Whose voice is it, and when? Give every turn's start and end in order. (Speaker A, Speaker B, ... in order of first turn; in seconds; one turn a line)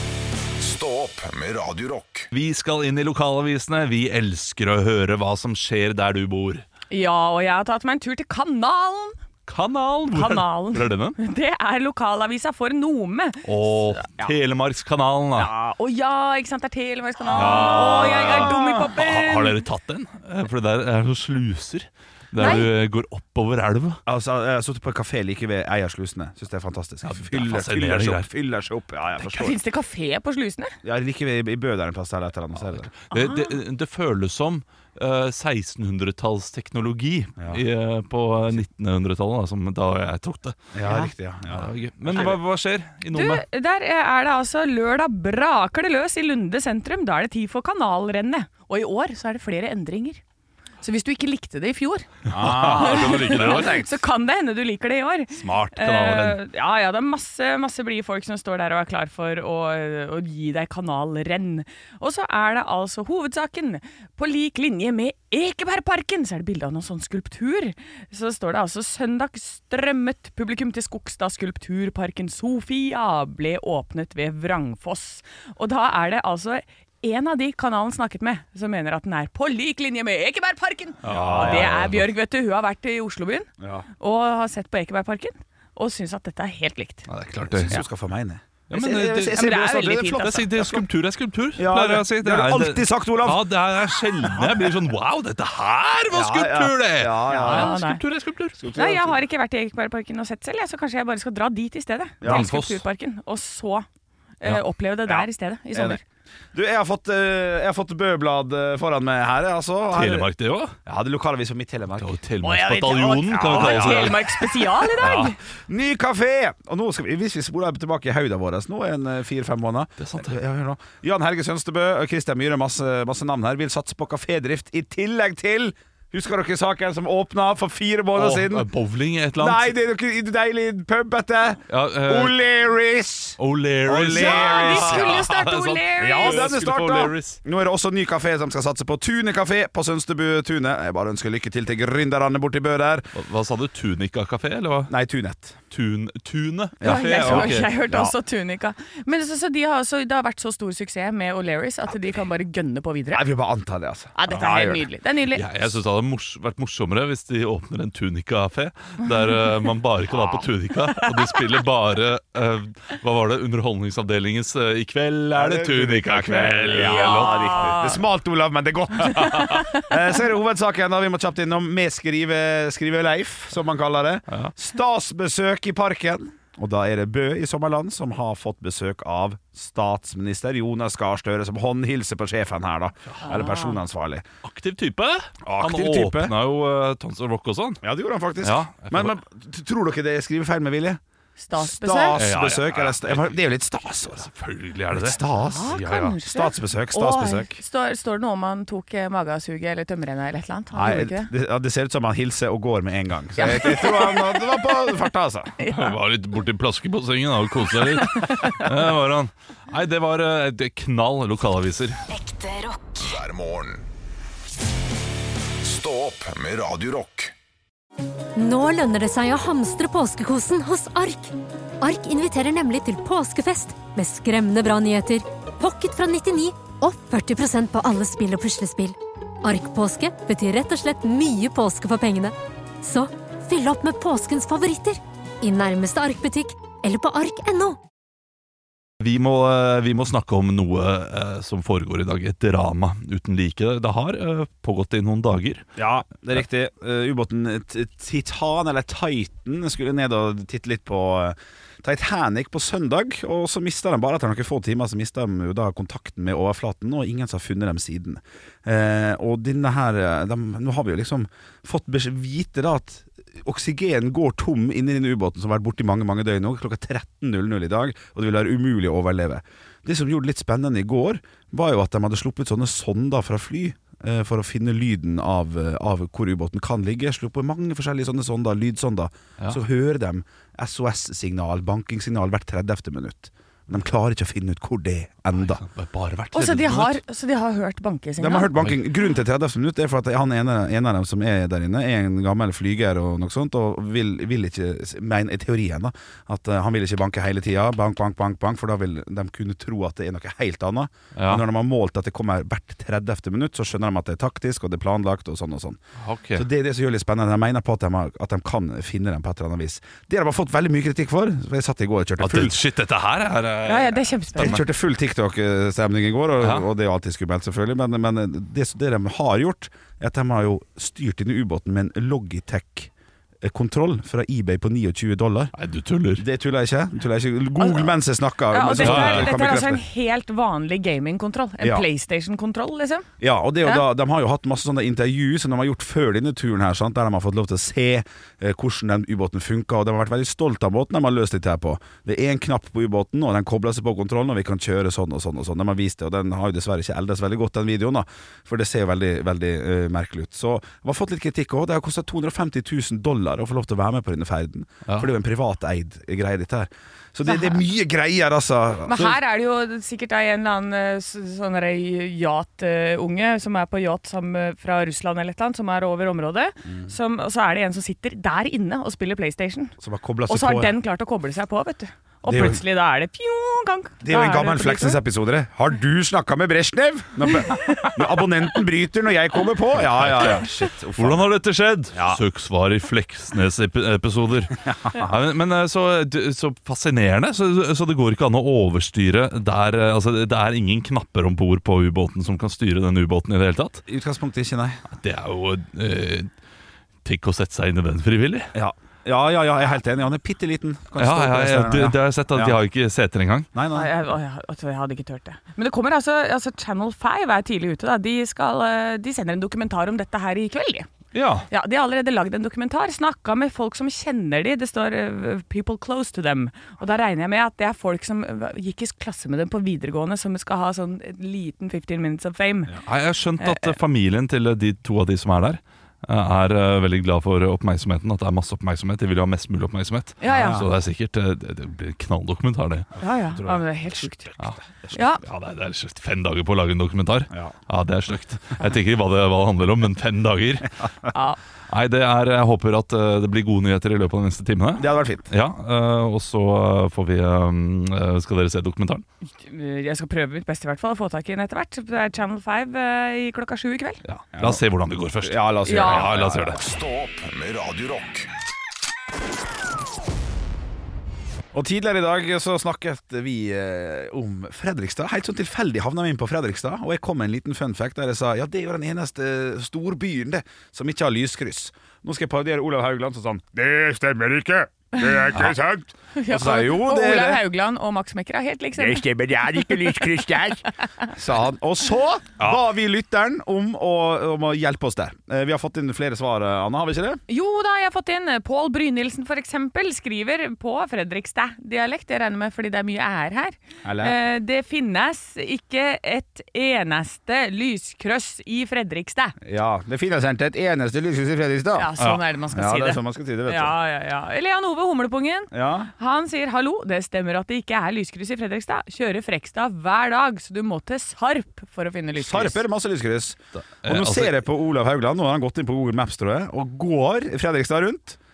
Speaker A: 0.6-2.3
Speaker B: 2.3-6.6
Speaker C: 6.9-9.2
Speaker B: 9.5-11.2
Speaker C: 10.1-14.3
Speaker B: 13.4-15.5
Speaker C: 15.4-19.6
Speaker B: 17.3-24.0
Speaker D: 17.3-18.8
Speaker C: 22.4-22.7
Speaker D: 24.1-29.6
Speaker B: 27.0-28.3
Speaker C: 29.2-30.8
Speaker D: 30.8-32.9
Speaker B: 32.6-40.7
Speaker C: 33.1-33.5
Speaker D: 40.7-42.4
Speaker C: 40.8-41.1
Speaker B: 41.5-43.4
Speaker C: 43.1-50.2
Speaker C: 50.8-87.1
Speaker B: 52.3-53.8
Speaker D: 52.3-54.0
Speaker B: 55.3-56.4
Speaker B: 81.0-82.1
Speaker D: 81.1-81.9
Speaker D: 83.6-83.9
Speaker B: 87.1-87.8
Speaker D: 87.5-90.9
Speaker B: 88.7-89.5
Speaker C: 89.3-90.5
Speaker B: 90.2-98.6
Speaker D: 91.6-93.5
Speaker D: 96.1-97.7
Speaker C: 97.3-98.0
Speaker D: 98.6-99.2
Speaker C: 98.8-103.9
Speaker D: 102.2-102.5
Speaker B: 102.2-102.8
Speaker C: 104.4-106.0
Speaker D: 105.1-106.0
Speaker D: 106.5-110.3
Speaker B: 109.9-110.8
Speaker D: 110.8-112.2
Speaker B: 112.0-114.5
Speaker C: 112.4-115.4
Speaker D: 113.2-114.7
Speaker B: 115.0-115.3
Speaker D: 115.7-128.7
Speaker B: 120.0-120.4
Speaker B: 128.2-129.8
Speaker D: 129.4-135.2
Speaker B: 131.7-132.4
Speaker B: 133.4-137.4
Speaker C: 134.1-136.5
Speaker D: 136.0-143.1
Speaker B: 143.1-144.9
Speaker D: 144.9-145.6
Speaker B: 145.7-147.7
Speaker D: 146.8-148.1
Speaker C: 146.8-153.3
Speaker D: 153.1-154.9
Speaker C: 154.2-155.4
Speaker B: 155.3-167.8
Speaker C: 161.0-161.4
Speaker D: 165.3-184.2
Speaker C: 166.8-168.0
Speaker C: 169.0-169.9
Speaker C: 183.2-183.8
Speaker B: 184.4-187.8
Speaker D: 185.4-186.4
Speaker D: 187.8-191.0
Speaker B: 188.4-189.2
Speaker C: 191.4-192.2
Speaker D: 191.5-194.3
Speaker B: 192.2-193.4
Speaker B: 194.1-196.2
Speaker D: 194.9-197.6
Speaker C: 195.4-201.3
Speaker D: 200.7-205.5
Speaker C: 203.4-204.6
Speaker C: 205.6-206.0
Speaker B: 205.7-212.0
Speaker C: 208.0-208.6
Speaker A: 212.1-213.9
Speaker A: 215.6-217.3
Speaker E: 218.4-237.8
Speaker B: 239.0-245.7
Speaker D: 245.8-285.6
Speaker B: 285.5-287.0
Speaker C: 286.3-288.5
Speaker D: 288.2-305.8
Speaker B: 301.2-301.4
Speaker B: 306.0-306.5
Speaker D: 306.4-312.6
Speaker B: 312.2-314.6
Speaker C: 313.6-314.6
Speaker D: 314.4-322.9
Speaker B: 316.4-316.7
Speaker D: 323.4-325.5
Speaker B: 325.6-326.2
Speaker D: 326.2-329.8
Speaker C: 327.6-327.9
Speaker C: 328.5-333.1
Speaker B: 328.8-329.3
Speaker D: 331.6-331.9
Speaker D: 333.2-359.2
Speaker C: 357.3-357.6
Speaker C: 358.9-369.8
Speaker D: 366.6-366.9
Speaker D: 369.8-370.7
Speaker C: 370.3-375.0
Speaker D: 372.3-372.6
Speaker D: 374.0-381.4
Speaker C: 377.5-377.8
Speaker B: 380.1-380.4
Speaker B: 381.0-393.8
Speaker D: 381.9-382.2
Speaker D: 384.7-385.1
Speaker D: 393.9-394.8
Speaker B: 394.9-396.3
Speaker B: 397.0-398.5
Speaker D: 398.5-402.6
Speaker B: 401.0-403.5
Speaker D: 403.5-403.9
Speaker C: 403.7-410.9
Speaker B: 411.1-411.5
Speaker C: 411.5-422.8
Speaker B: 422.9-432.9
Speaker C: 423.4-423.7
Speaker C: 430.2-430.6
Speaker D: 430.3-430.7
Speaker D: 433.0-435.0
Speaker C: 433.0-434.3
Speaker C: 434.9-435.2
Speaker B: 435.2-440.8
Speaker C: 441.1-441.4
Speaker B: 441.7-449.1
Speaker D: 444.8-445.3
Speaker C: 449.3-454.0
Speaker B: 454.1-456.6
Speaker D: 454.4-454.6
Speaker D: 455.2-456.6
Speaker C: 455.7-456.1
Speaker A: 456.5-458.3
Speaker D: 461.5-477.4
Speaker C: 476.1-479.1
Speaker D: 478.8-487.2
Speaker C: 479.6-480.0
Speaker C: 487.3-499.4
Speaker D: 493.8-494.2
Speaker D: 499.4-501.9
Speaker C: 501.8-512.6
Speaker D: 502.5-503.8
Speaker D: 505.5-505.9
Speaker D: 512.2-518.2
Speaker B: 513.6-514.4